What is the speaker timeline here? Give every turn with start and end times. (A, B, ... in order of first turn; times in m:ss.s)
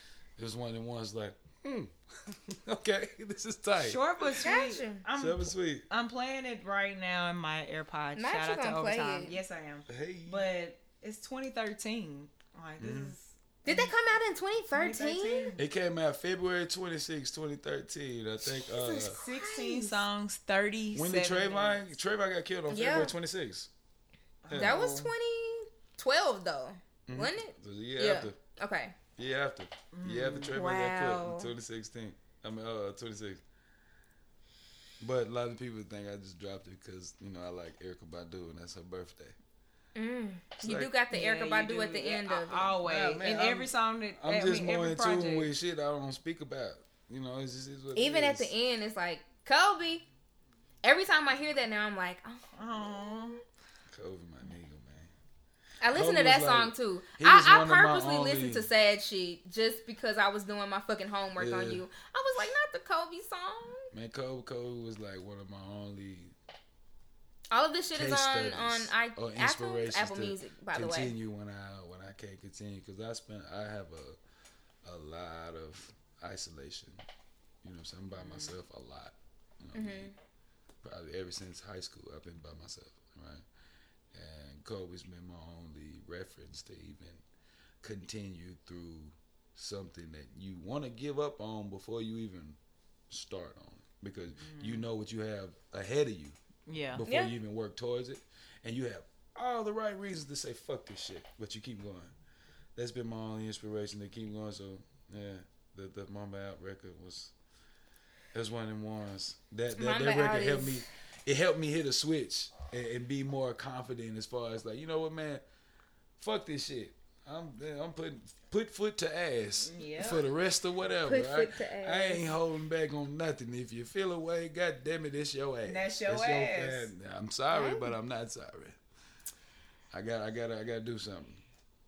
0:00.4-0:04.4 A
0:03.8-0:13.9 B
0:04.4-0:05.0 C
0:05.2-0:05.8 A
0:08.2-0:09.4 C
0:09.9-0:10.5 A
0:12.8-0:13.1 A
0:13.7-0:15.5 C
0:14.7-0:15.6 B
0:15.6-0:19.2 A
0:18.8-0:20.0 C
0:18.9-0:21.9 B
0:21.0-0:23.7 A
0:22.7-0:23.1 C
0:24.4-0:25.1 B
0:24.5-0:24.8 A
0:24.6-0:29.0 C
0:27.1-0:28.4 A
0:29.2-0:33.4 A
0:29.9-0:30.6 B
0:30.6-0:31.5 C
0:35.0-0:39.4 A
0:40.0-0:42.7 C
0:40.6-0:40.9 A
0:41.1-0:45.5 B
0:42.8-0:48.5 A
0:48.0-0:50.0 C
0:50.8-0:52.4 C
0:52.6-0:53.4 B
0:53.9-0:55.1 A
0:55.8-1:03.9 C
0:56.0-0:58.7 A
1:01.4-1:01.8 A
1:03.9-1:06.3 A
1:07.5-1:11.2 C
1:07.9-1:14.2 A
1:14.8-1:17.0 A
1:17.6-1:20.1 A
1:18.2-1:18.5 B
1:19.7-1:20.1 C
1:20.8-1:23.4 A
1:24.1-1:27.2 A
1:27.8-1:32.6 A
1:33.1-1:36.4 A
1:34.4-1:34.8 B
1:36.7-1:37.0 B
1:36.9-1:42.1 A
1:37.1-1:37.3 C
1:42.8-1:47.3 A
1:48.3-1:55.4 A
1:49.8-1:50.8 C
1:56.2-2:08.8 A
1:59.6-2:00.2 B
2:01.0-2:02.3 C
2:05.6-2:06.9 B
2:07.5-2:08.0 C
2:09.9-2:11.4 A